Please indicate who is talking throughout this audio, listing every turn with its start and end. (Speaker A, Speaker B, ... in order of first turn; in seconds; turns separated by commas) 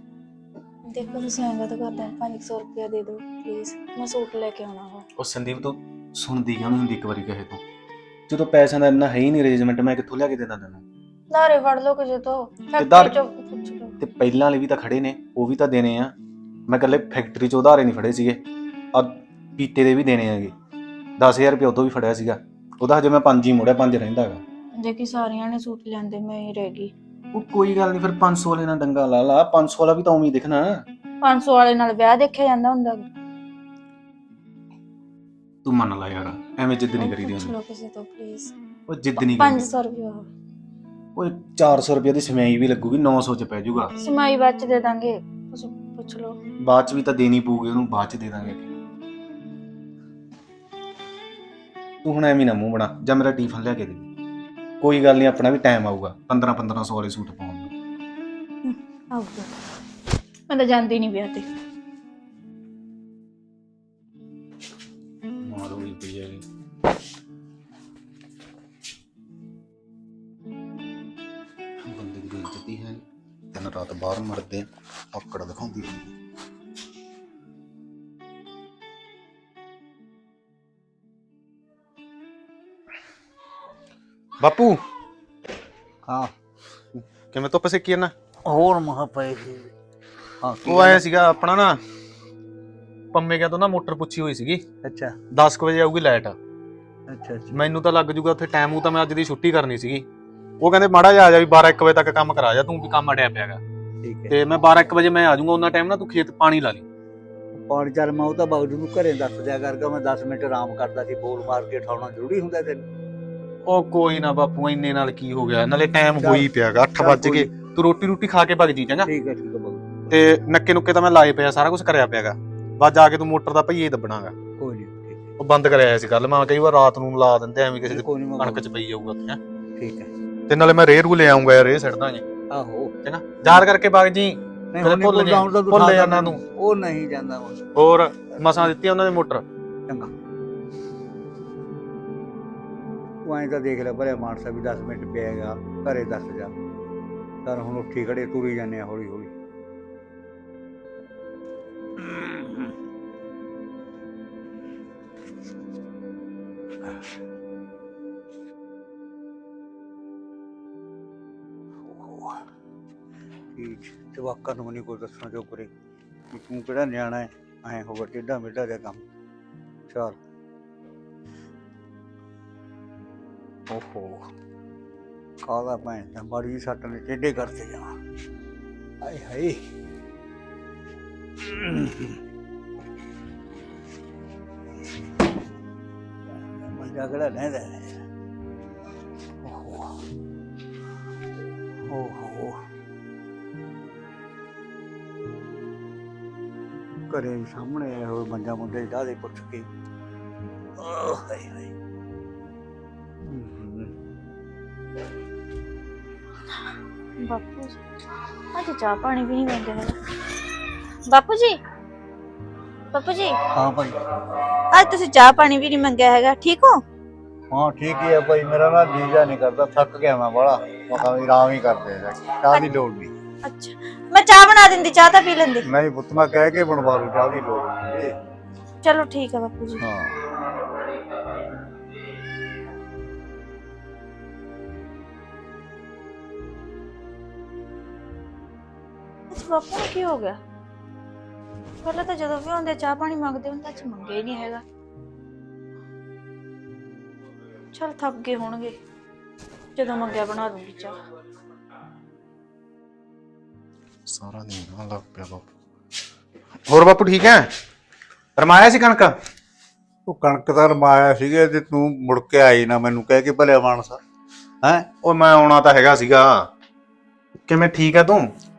Speaker A: 0.9-5.1, Speaker B: 5.2-7.6, Speaker B: 8.3-10.8, Speaker A: 11.3-14.0, Speaker B: 12.8-13.2, Speaker B: 14.0-16.1, Speaker B: 16.7-18.4, Speaker B: 18.9-20.5, Speaker B: 21.2-24.4, Speaker A: 24.8-26.9, Speaker B: 27.3-30.8, Speaker A: 31.2-33.0, Speaker B: 35.6-37.5, Speaker A: 37.0-38.5, Speaker B: 38.9-39.7, Speaker A: 39.2-40.3, Speaker B: 41.2-43.9, Speaker A: 44.0-46.4, Speaker B: 46.6-48.7, Speaker B: 52.0-54.1, Speaker B: 54.8-57.7, Speaker A: 58.6-59.5, Speaker A: 60.5-61.5, Speaker B: 65.4-66.4, Speaker B: 71.8-73.0, Speaker B: 73.5-76.1, Speaker B: 84.4-84.8, Speaker B: 87.0-88.1, Speaker C: 88.5-89.7, Speaker C: 90.4-91.0, Speaker B: 90.7-91.8, Speaker B: 93.1-94.6, Speaker C: 94.8-95.2, Speaker B: 95.3-96.4, Speaker C: 97.1-97.6, Speaker B: 97.5-100.0, Speaker B: 100.6-103.6, Speaker C: 104.0-104.4, Speaker B: 104.3-106.8, Speaker C: 107.5-112.8, Speaker B: 113.7-119.1, Speaker C: 116.2-117.5, Speaker C: 119.0-120.2, Speaker B: 120.1-124.3, Speaker C: 124.6-125.3, Speaker B: 125.4-129.4, Speaker C: 127.9-128.6, Speaker C: 129.8-130.1, Speaker B: 130.5-132.2, Speaker C: 132.5-132.9, Speaker B: 133.0-136.4, Speaker C: 134.7-137.6, Speaker B: 137.8-139.4, Speaker C: 143.2-146.5, Speaker C: 147.4-149.3, Speaker C: 152.0-152.7, Speaker C: 161.8-162.4, Speaker C: 163.6-165.7, Speaker C: 166.3-169.1, Speaker C: 169.9-170.2, Speaker C: 173.7-174.3, Speaker C: 175.4-178.0, Speaker C: 179.0-179.6, Speaker C: 181.4-182.2, Speaker C: 186.5-188.0, Speaker C: 189.4-190.0, Speaker C: 191.9-192.6, Speaker C: 197.1-199.7, Speaker C: 200.8-201.7, Speaker C: 203.2-203.9, Speaker A: 207.2-207.8, Speaker A: 208.5-210.0, Speaker A: 211.1-211.6, Speaker A: 212.9-213.4, Speaker C: 213.5-214.0, Speaker A: 214.7-216.8, Speaker C: 217.5-223.1, Speaker A: 223.4-225.7, Speaker C: 225.7-228.1, Speaker A: 228.8-229.8, Speaker C: 229.8-230.3, Speaker A: 239.3-240.4, Speaker A: 241.8-244.6, Speaker A: 247.7-248.8, Speaker A: 249.8-251.0, Speaker B: 254.1-255.4, Speaker B: 256.7-257.5, Speaker B: 258.4-259.1, Speaker C: 260.1-264.0, Speaker B: 265.0-266.5, Speaker B: 267.5-268.3